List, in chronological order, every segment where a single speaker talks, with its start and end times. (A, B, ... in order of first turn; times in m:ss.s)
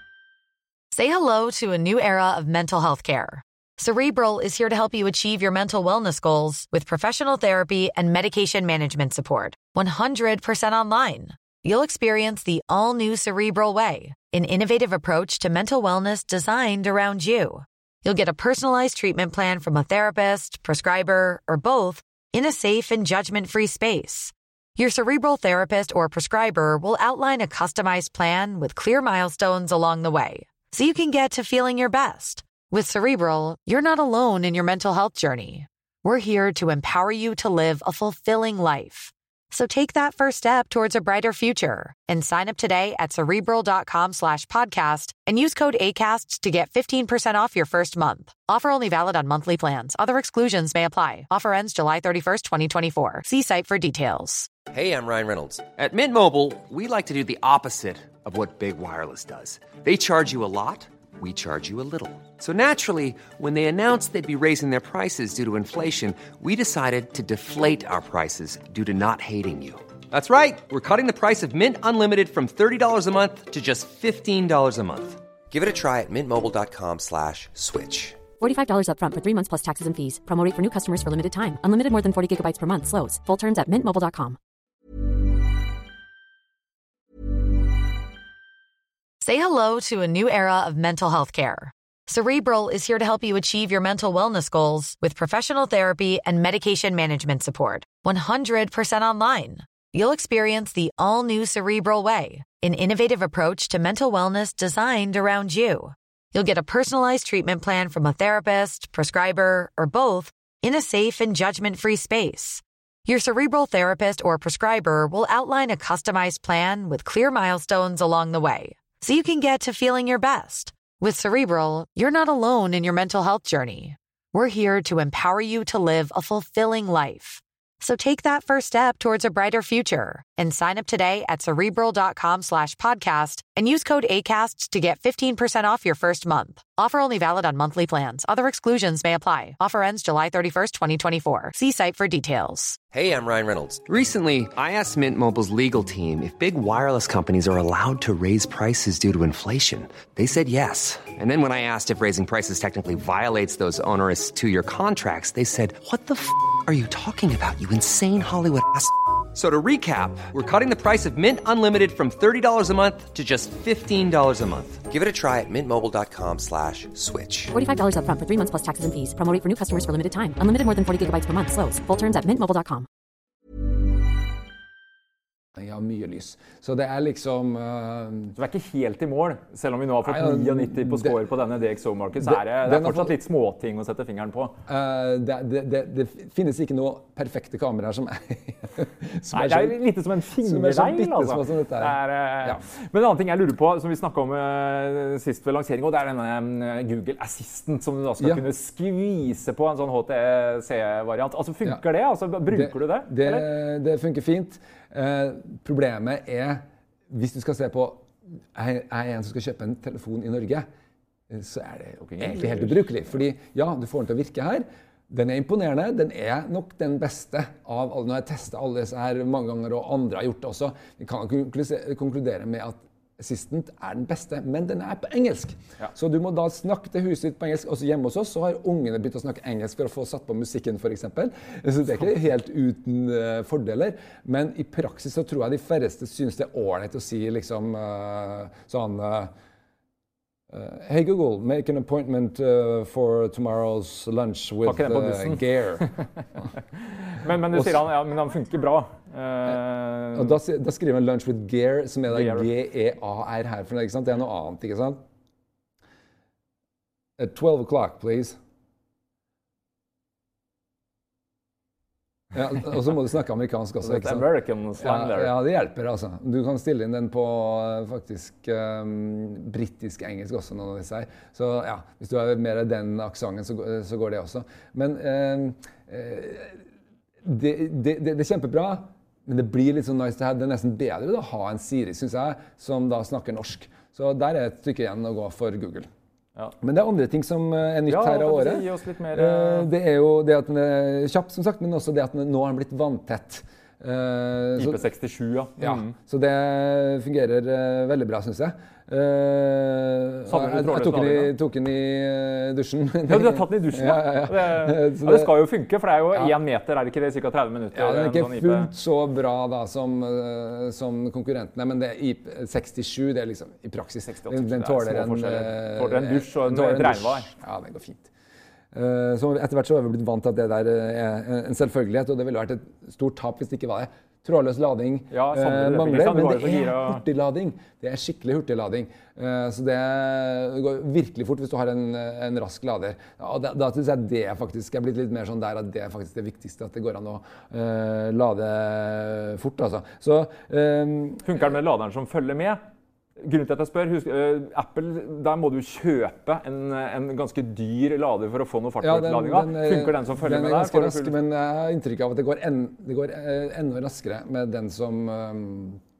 0:00.9-0:54.5 A
0:54.7-1:18.2 B
1:18.4-1:24.4 C
1:29.2-2:22.8 A
2:22.9-2:47.5 B
2:47.5-2:52.9 C
2:55.5-2:58.3 D
2:58.3-3:04.6 E
3:00.0-3:01.2 D
3:02.2-3:03.1 D
3:04.7-3:09.8 D
3:09.3-3:23.4 E
3:10.4-3:12.6 D
3:22.5-3:30.6 D
3:31.3-3:59.3 D
3:32.0-3:32.8 E
4:00.5-4:05.9 D
4:04.6-4:10.4 E
4:10.1-4:15.0 D
4:12.1-4:12.5 E
4:17.2-4:18.4 D
4:22.3-4:24.3 D
4:23.8-4:25.4 E
4:24.8-4:36.6 D
4:37.2-4:45.9 D
4:46.6-4:54.8 D
4:47.8-4:49.7 E
4:54.6-4:55.9 E
4:55.6-5:05.3 D
5:00.2-5:01.3 E
5:03.1-5:08.7 E
5:07.7-5:18.1 D
5:14.1-5:17.3 E
5:18.7-5:41.4 D
5:25.1-5:27.0 E
5:41.2-5:42.6 E
5:43.2-5:51.1 E
5:48.8-5:55.8 D